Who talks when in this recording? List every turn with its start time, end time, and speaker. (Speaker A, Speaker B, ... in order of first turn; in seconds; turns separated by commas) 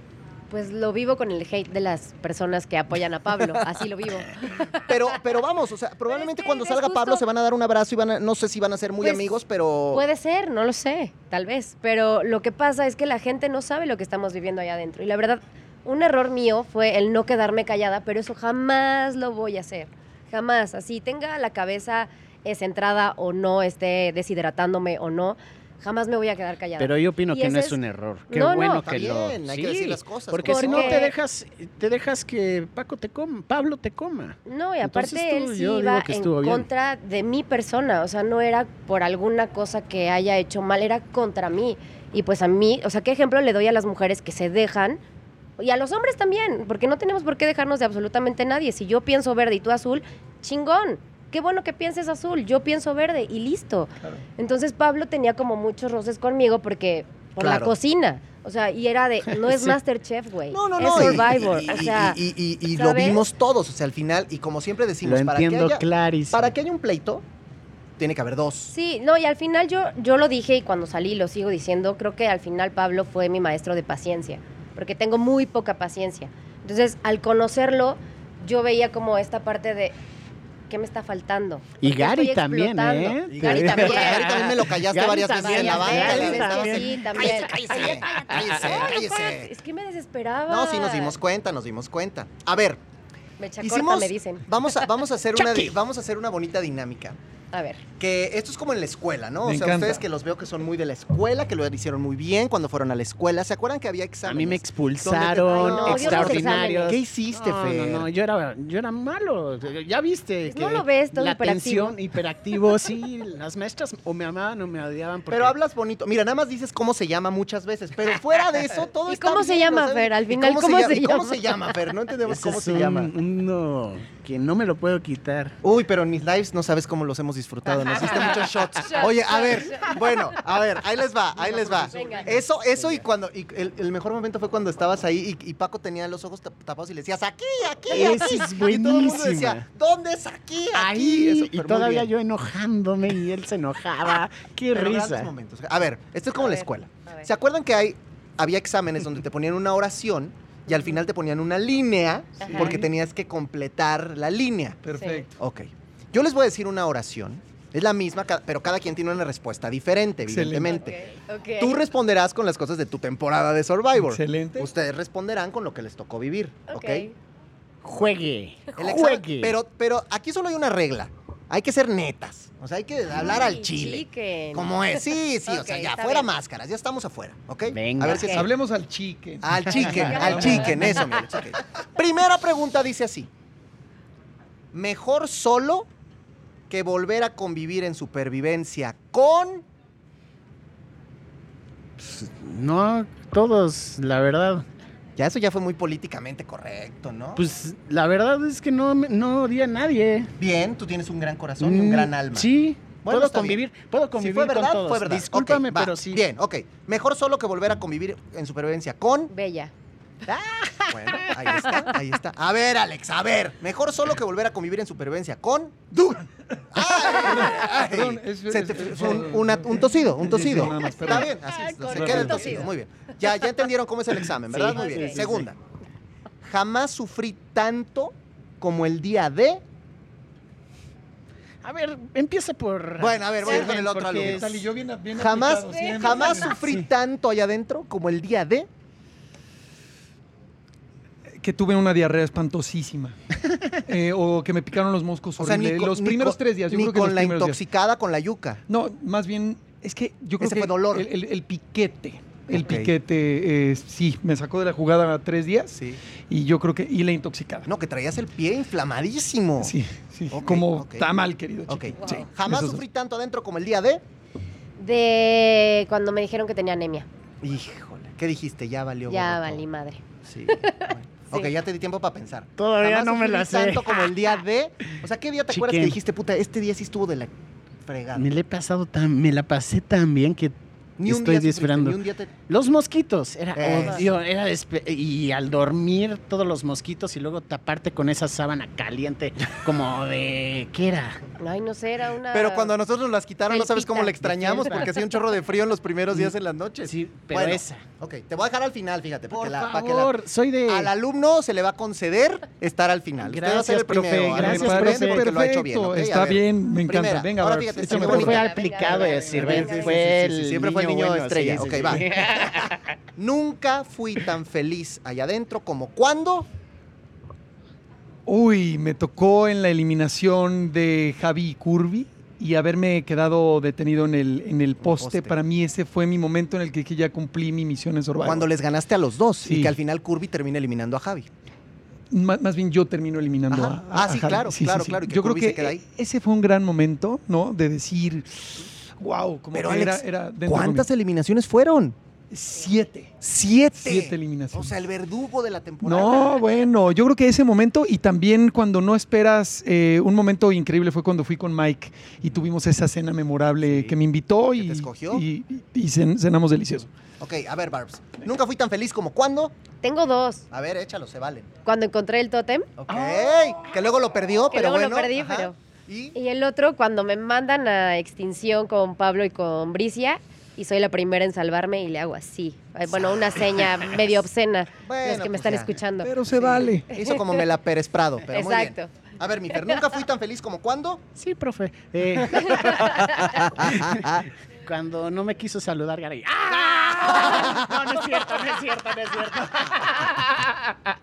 Speaker A: 0.5-4.9, Speaker B: 4.8-10.0, Speaker A: 6.1-7.2, Speaker A: 9.0-9.4, Speaker A: 9.9-27.8, Speaker C: 26.8-36.7, Speaker A: 28.3-28.8, Speaker B: 28.8-31.0, Speaker A: 30.4-31.1, Speaker A: 34.5-45.0, Speaker A: 45.6-63.2, Speaker B: 57.4-57.7, Speaker B: 60.5-67.2, Speaker C: 65.0-66.5, Speaker B: 68.0-68.7, Speaker A: 68.7-80.0, Speaker A: 80.7-84.3, Speaker C: 81.8-88.8, Speaker B: 83.3-89.5, Speaker A: 85.4-91.2, Speaker B: 90.5-92.8, Speaker A: 93.4-94.4, Speaker B: 93.6-97.2, Speaker C: 95.3-95.7, Speaker A: 97.5-97.8, Speaker B: 98.0-108.1, Speaker D: 99.4-100.0, Speaker C: 104.2-115.5, Speaker A: 105.5-107.0, Speaker A: 110.5-111.9, Speaker B: 115.3-123.1, Speaker A: 119.1-121.7, Speaker C: 122.3-125.6, Speaker B: 125.6-142.1, Speaker A: 127.9-130.3, Speaker A: 131.7-132.3, Speaker C: 131.8-132.2, Speaker C: 137.9-139.6, Speaker C: 140.7-145.3, Speaker B: 144.7-154.8, Speaker A: 146.4-147.3, Speaker A: 152.4-152.8, Speaker D: 152.5-152.9, Speaker D: 154.8-155.3, Speaker A: 155.0-155.2, Speaker B: 155.4-161.0, Speaker D: 160.2-160.8, Speaker A: 160.7-161.8, Speaker B: 161.6-167.1, Speaker D: 163.9-164.7, Speaker A: 166.7-167.1, Speaker C: 167.8-169.6, Speaker B: 168.8-178.5, Speaker A: 173.2-176.3, Speaker C: 177.7-178.3, Speaker A: 178.0-178.4, Speaker D: 178.3-181.2, Speaker B: 179.4-183.3, Speaker C: 179.8-180.3, Speaker A: 180.0-181.0, Speaker B: 184.7-185.9, Speaker B: 186.7-189.6, Speaker C: 192.0-194.7, Speaker B: 195.2-197.4, Speaker C: 197.3-200.3, Speaker B: 200.4-202.5, Speaker C: 201.6-206.2, Speaker B: 203.0-203.6, Speaker B: 204.2-209.3, Speaker A: 209.3-209.7, Speaker C: 210.3-211.8, Speaker B: 210.9-215.9, Speaker D: 215.9-216.3, Speaker B: 216.7-225.6, Speaker D: 216.8-221.3, Speaker A: 220.8-222.7, Speaker C: 221.1-222.6, Speaker D: 221.9-222.6, Speaker C: 224.5-225.5, Speaker A: 224.8-225.2, Speaker B: 226.4-229.6, Speaker C: 231.6-234.6, Speaker B: 233.0-238.7, Speaker D: 234.1-236.6, Speaker A: 235.7-236.5, Speaker D: 241.4-243.2, Speaker D: 243.8-247.6, Speaker B: 245.4-248.6, Speaker D: 248.7-257.7, Speaker B: 250.4-251.1, Speaker B: 252.5-252.9, Speaker B: 255.8-256.0, Speaker B: 257.6-259.7, Speaker D: 259.6-262.8, Speaker B: 260.3-261.1, Speaker B: 261.7-264.0, Speaker A: 262.0-262.3, Speaker A: 264.8-267.1, Speaker B: 267.4-269.6, Speaker A: 269.1-271.5, Speaker B: 270.2-277.3, Speaker C: 272.6-274.1, Speaker C: 275.5-276.0, Speaker B: 277.8-278.3, Speaker C: 278.1-291.2, Speaker B: 281.0-282.3, Speaker B: 283.6-284.1, Speaker A: 291.4-292.7, Speaker B: 292.3-316.5, Speaker A: 293.5-294.9, Speaker C: 294.2-294.9, Speaker C: 296.8-297.8, Speaker C: 299.3-300.9, Speaker C: 303.2-305.3, Speaker D: 304.1-308.4, Speaker C: 307.8-312.9, Speaker A: 308.2-310.0, Speaker D: 318.2-328.5, Speaker B: 324.8-325.4, Speaker B: 328.2-331.3, Speaker D: 329.4-329.7, Speaker D: 332.1-340.9, Speaker B: 333.5-335.8, Speaker B: 339.5-341.9, Speaker D: 342.3-343.1, Speaker B: 343.2-346.3, Speaker D: 343.8-344.7, Speaker D: 345.8-356.9, Speaker B: 353.6-354.0, Speaker B: 354.6-355.2, Speaker B: 357.2-359.5, Speaker A: 359.8-360.4, Speaker B: 360.5-361.5, Speaker A: 361.6-362.7, Speaker B: 362.8-366.1, Speaker C: 363.1-363.6, Speaker A: 364.5-365.6, Speaker A: 366.1-376.1, Speaker B: 372.9-374.1, Speaker B: 374.8-375.8, Speaker D: 376.0-376.9, Speaker B: 376.3-381.0, Speaker A: 376.9-377.4, Speaker A: 378.3-378.9, Speaker A: 379.5-379.7, Speaker C: 381.1-390.7, Speaker B: 382.4-384.3